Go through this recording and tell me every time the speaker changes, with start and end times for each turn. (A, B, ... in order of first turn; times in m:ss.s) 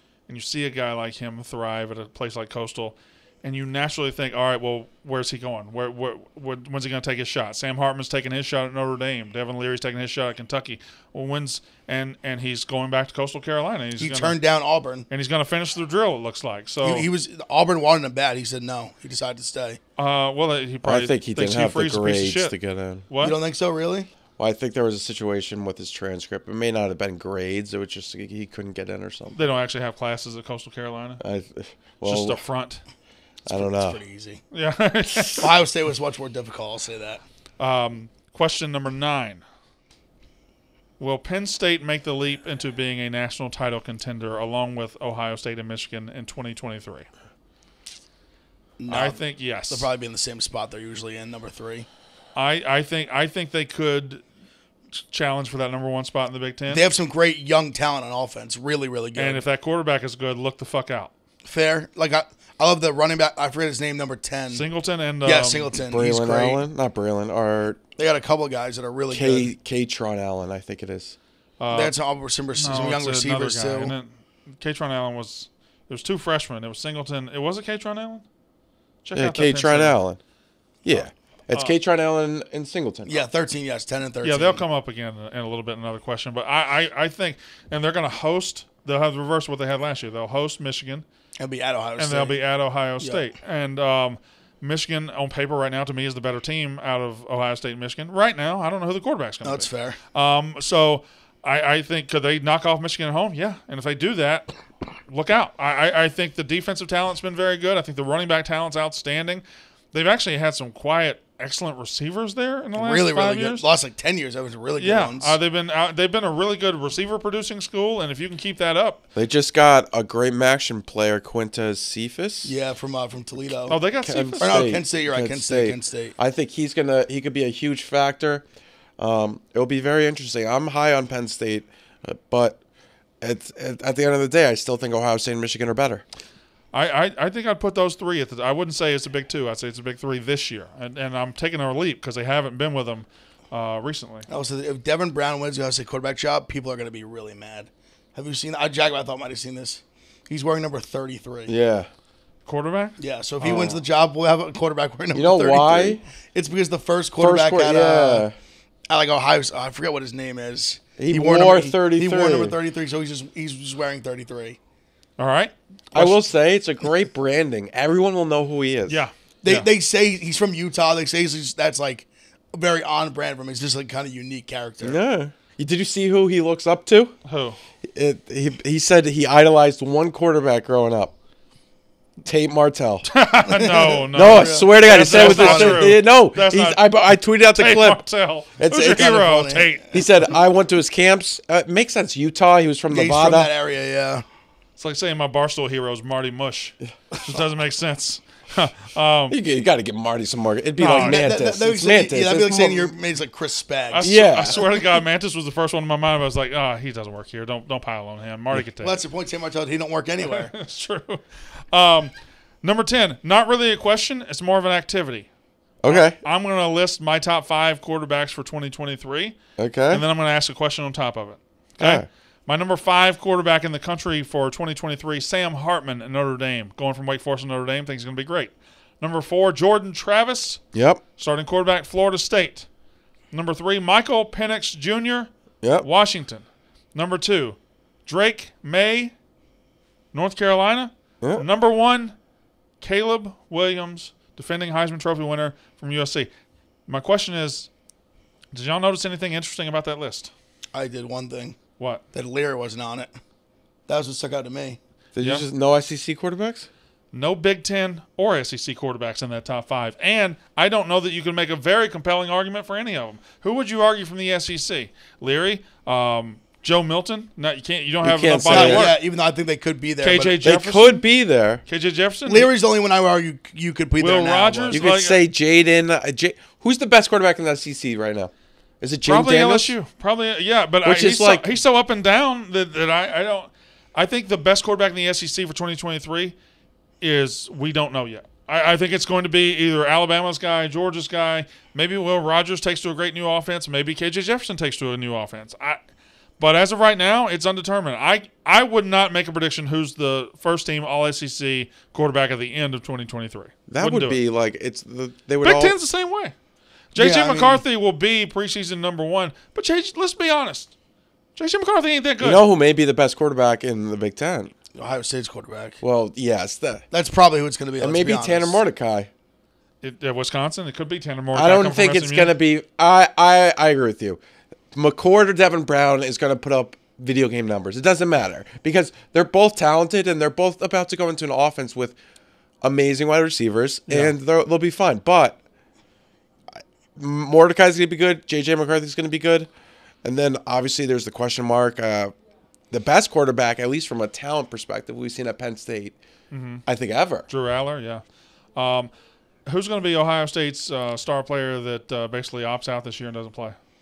0:00.3-0:14.4 A
0:14.0-0:15.1 B
0:15.1-0:17.0 A
0:16.8-0:19.8 B
0:20.0-0:22.5 A
0:20.8-0:23.0 C
0:23.1-0:23.4 A
0:23.2-0:24.1 B
0:24.4-0:29.4 C
0:29.3-0:31.2 A
0:31.2-0:32.4 C
0:32.0-0:32.8 A
0:33.4-0:34.4 B
0:33.5-0:34.0 C
0:34.5-0:35.5 A
0:35.4-0:37.2 B
0:37.6-0:39.4 A
0:41.0-0:47.1 A
0:48.8-0:51.9 B
0:48.9-0:49.9 A
0:52.3-0:54.2 A
0:55.0-0:56.8 A
0:56.7-0:59.4 B
0:59.2-1:01.1 A
1:01.4-1:04.6 B
1:04.5-1:05.7 A
1:05.2-1:06.6 B
1:05.8-1:07.8 C
1:08.0-1:09.5 B
1:09.1-1:11.2 C
1:11.6-1:11.9 A
1:11.7-1:13.9 B
1:12.6-1:18.2 A
1:19.0-1:20.0 A
1:19.1-1:20.2 C
1:20.8-1:23.2 C
1:20.9-1:21.7 A
1:23.1-1:24.6 B
1:24.2-1:31.0 A
1:31.4-1:32.4 B
1:32.0-1:44.5 A
1:39.4-1:40.0 B
1:45.0-1:53.6 A
1:52.8-1:55.4 B
1:54.8-1:59.0 A
1:59.1-2:02.5 C
2:02.4-2:03.8 B
2:03.7-2:04.6 A
2:04.0-2:08.4 C
2:04.4-2:06.2 B
2:09.0-2:12.6 C
2:13.2-2:16.0 C
2:16.7-2:24.3 A
2:24.3-2:31.5 B
2:31.5-2:31.9 C
2:32.4-2:33.0 A
2:33.0-2:38.3 B
2:33.4-2:33.8 C
2:35.1-2:36.0 C
2:37.2-2:38.3 C
2:38.9-2:44.6 B
2:41.0-2:42.6 C
2:45.2-2:46.2 A
2:45.9-2:49.0 C
2:48.9-2:49.7 A
2:49.4-2:55.0 B
2:54.8-2:57.1 C
2:57.2-2:57.6 A
2:57.8-3:01.1 C
3:02.2-3:03.1 C
3:03.0-3:06.8 A
3:03.4-3:06.0 B
3:04.1-3:08.0 C
3:07.5-3:09.9 A
3:08.6-3:09.3 C
3:09.0-3:09.7 B
3:09.9-3:13.5 C
3:12.9-3:14.2 B
3:14.8-3:19.4 A
3:19.3-3:22.9 C
3:20.8-3:21.3 A
3:20.9-3:24.7 B
3:23.9-3:29.0 A
3:24.0-3:24.6 C
3:28.8-3:30.5 B
3:30.2-3:35.3 A
3:35.8-3:36.2 C
3:35.8-3:39.4 A
3:39.6-3:40.0 C
3:39.9-3:50.6 A
3:41.8-3:42.0 C
3:50.7-3:51.0 C
3:51.2-3:52.7 A
3:53.3-3:59.1 A
4:00.1-4:02.2 A
4:02.8-4:06.3 A
4:06.9-4:07.7 A
4:08.5-4:10.3 A
4:10.7-4:11.6 B
4:12.1-4:13.1 B
4:13.9-4:14.8 B
4:15.1-4:16.7 C
4:15.2-4:15.4 A
4:17.1-4:29.0 A
4:28.0-4:28.9 C
4:28.5-4:30.4 B
4:30.0-4:31.0 A
4:30.4-4:31.6 C
4:31.6-4:32.5 A
4:32.3-4:34.8 B
4:34.0-4:35.2 A
4:34.7-4:39.7 C
4:39.0-4:46.3 A
4:40.8-4:41.5 C
4:47.0-4:55.8 A
4:56.4-5:04.2 A
5:03.7-5:05.8 C
5:05.4-5:06.3 A
5:06.9-5:10.7 A
5:07.0-5:07.6 B
5:11.4-5:12.4 A
5:12.2-5:14.5 C
5:14.7-5:15.8 B
5:15.8-5:16.8 C
5:16.9-5:18.6 B
5:17.8-5:19.1 C
5:19.8-5:22.3 A
5:21.3-5:24.2 C
5:24.7-5:32.0 C
5:32.6-5:35.4 C
5:33.9-5:34.1 A
5:36.6-5:39.5 C
5:40.0-5:42.1 C
5:42.7-5:46.0 C
5:46.3-5:46.6 A
5:46.6-5:47.2 C
5:47.3-5:48.0 A
5:48.5-5:48.9 A
5:49.4-5:53.6 A